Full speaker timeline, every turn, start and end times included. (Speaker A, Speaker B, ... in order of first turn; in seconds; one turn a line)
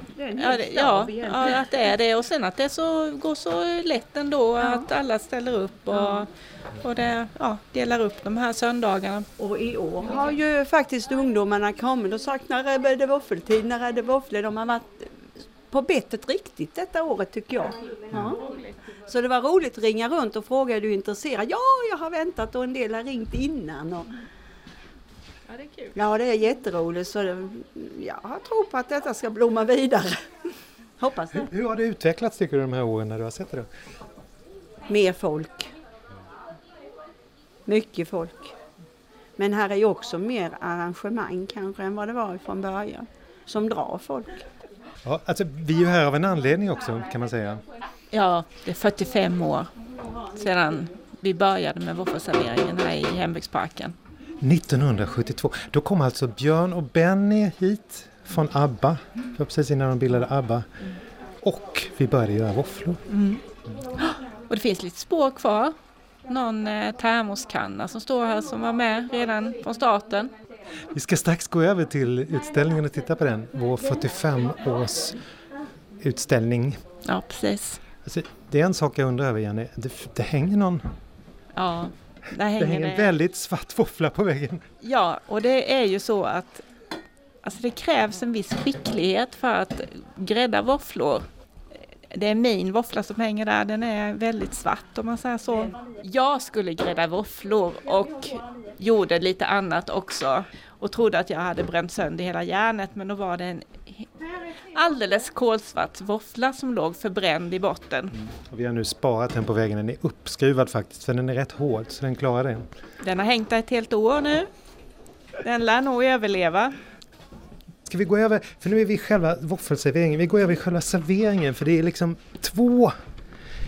Speaker A: 0.1-1.9
Speaker B: 0.3-9.3
Speaker A: 5.9-6.2
Speaker A: 9.4-18.4
Speaker A: 19.0-24.1
Speaker B: 25.5-26.0
Speaker A: 25.9-30.2
Speaker A: 31.0-31.5
Speaker C: 31.3-33.7
Speaker A: 34.9-35.7
Speaker A: 37.6-38.5
Speaker A: 39.4-44.4
Speaker C: 45.0-47.6
Speaker B: 48.1-49.7
Speaker B: 50.3-54.0
Speaker C: 54.4-60.7
Speaker C: 61.4-63.0
Speaker B: 63.1-63.4
Speaker B: 64.0-65.7
Speaker B: 66.3-70.3
Speaker C: 70.9-75.2
Speaker C: 76.0-76.8
Speaker B: 77.0-77.8
Speaker C: 78.0-80.9
Speaker B: 81.5-83.1
Speaker C: 82.5-84.6
Speaker B: 84.8-86.6
Speaker B: 87.4-91.2
Speaker B: 92.1-104.1
Speaker B: 104.7-108.1
Speaker C: 108.1-112.7
Speaker B: 113.0-114.5
Speaker B: 115.4-116.8
Speaker C: 117.9-123.0